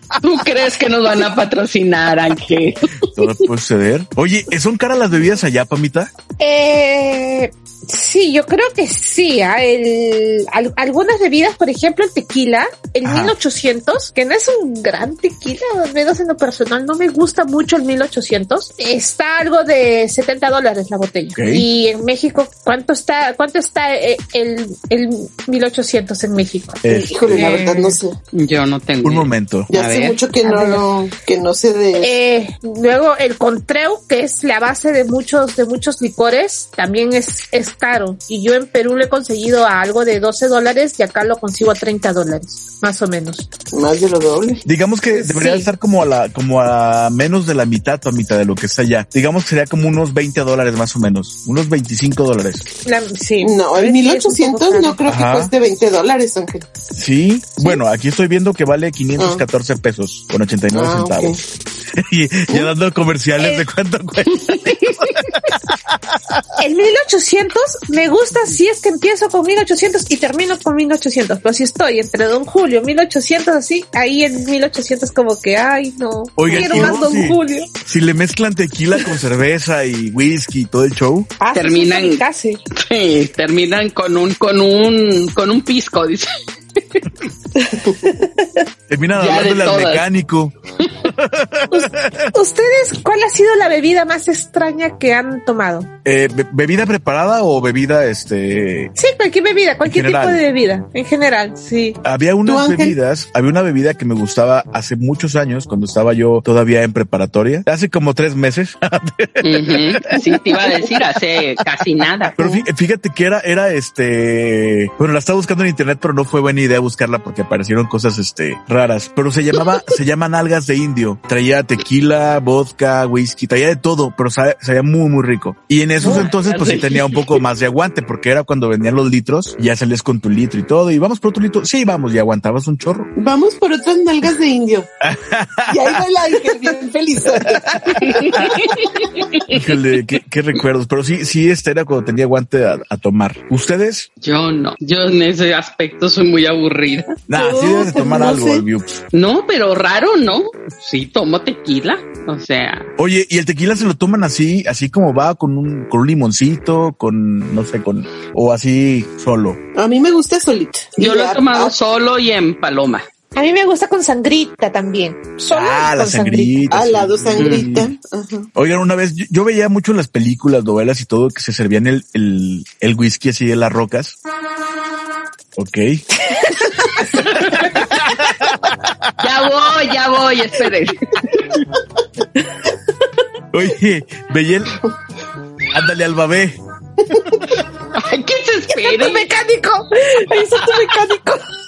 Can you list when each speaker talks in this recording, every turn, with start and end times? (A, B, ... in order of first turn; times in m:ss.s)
0:00.2-0:03.3 A
0:03.1-0:06.1 B
0:06.4-0:28.0 C
0:13.0-0:13.3 B
0:21.4-0:21.7 B
0:26.8-0:27.6 B
0:26.9-0:28.2 D
0:28.3-0:30.2 A
0:29.0-0:29.7 B
0:29.7-0:32.1 D
0:30.4-0:30.9 C
0:32.0-0:43.5 C
0:43.7-0:44.6 D
0:44.6-0:52.6 B
0:45.1-0:45.7 C
0:52.8-0:55.0 C
0:53.4-0:56.7 D
0:55.1-0:55.5 B
0:56.9-1:06.4 B
0:59.2-0:59.4 D
1:00.7-1:01.4 D
1:03.4-1:03.6 C
1:06.6-1:17.7 C
1:16.4-1:21.3 B
1:16.5-1:17.0 D
1:21.4-1:22.6 C
1:21.5-1:26.3 A
1:27.8-1:28.6 C
1:28.9-1:30.5 B
1:29.2-1:30.0 A
1:31.0-1:32.2 B
1:31.7-1:35.9 C
1:36.0-1:38.9 B
1:39.0-1:42.0 C
1:39.8-1:40.4 B
1:42.0-1:50.2 B
1:42.4-1:43.0 D
1:49.4-1:52.3 A
1:50.6-1:50.9 D
1:52.4-2:13.1 B
1:52.4-1:52.7 D
2:06.0-2:07.4 A
2:13.2-2:14.9 D
2:15.0-2:16.0 B
2:15.7-2:19.3 D
2:17.4-2:18.7 B
2:18.1-2:19.6 A
2:19.5-2:24.1 B
2:24.2-2:27.2 A
2:27.3-2:29.0 B
2:27.3-2:28.7 D
2:29.1-2:32.9 A
2:33.0-2:39.6 B
2:39.8-2:41.8 D
2:41.0-2:43.1 A
2:43.4-2:46.6 C
2:45.5-2:47.9 B
2:46.7-2:48.5 D
2:47.4-2:47.7 A
2:48.6-2:54.2 B
2:55.6-2:56.0 B
2:56.2-2:57.2 C
2:57.2-2:59.0 B
2:57.3-2:57.7 A
2:59.2-3:01.6 A
3:03.5-3:04.9 B
3:05.7-3:06.6 B
3:07.1-3:07.4 D
3:07.2-3:07.6 B
3:08.0-3:09.3 A
3:08.7-3:11.4 C